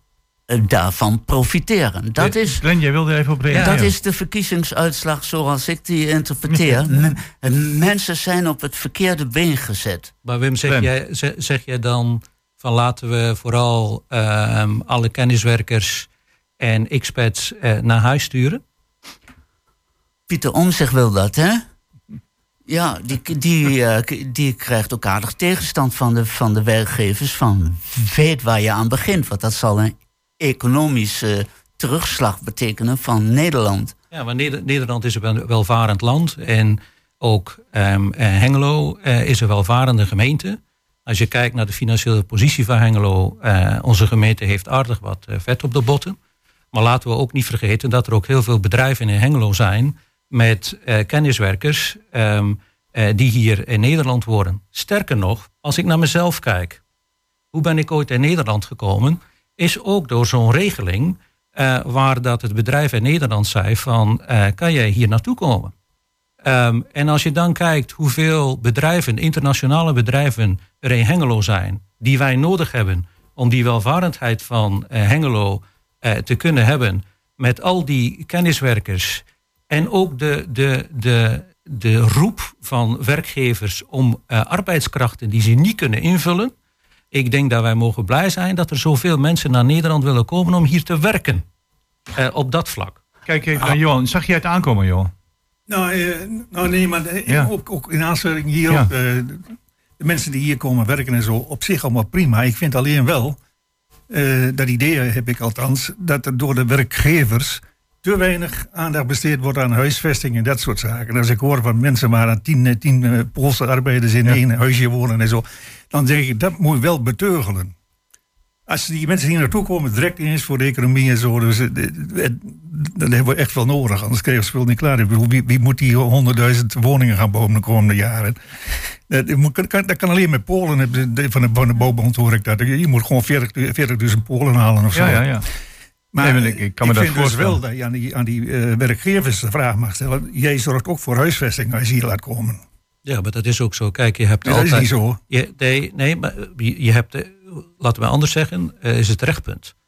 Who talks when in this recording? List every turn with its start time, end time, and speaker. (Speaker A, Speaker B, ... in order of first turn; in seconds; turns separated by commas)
Speaker A: 0.5-2.6, Speaker B: 2.2-3.9, Speaker C: 3.5-3.8, Speaker A: 3.5-10.1, Speaker B: 6.5-7.1, Speaker C: 10.2-16.1, Speaker C: 16.6-18.6, Speaker A: 20.3-21.6, Speaker A: 22.7-33.9, Speaker C: 34.1-46.2, Speaker C: 46.7-56.8, Speaker C: 57.5-65.7, Speaker C: 66.4-86.5, Speaker C: 87.1-91.4, Speaker C: 92.2-93.0, Speaker B: 93.2-95.1, Speaker D: 95.7-103.4, Speaker D: 104.1-117.7, Speaker D: 118.7-135.5, Speaker B: 134.9-135.4, Speaker D: 136.1-142.6, Speaker B: 136.2-137.6, Speaker C: 143.0-149.7, Speaker D: 144.4-145.2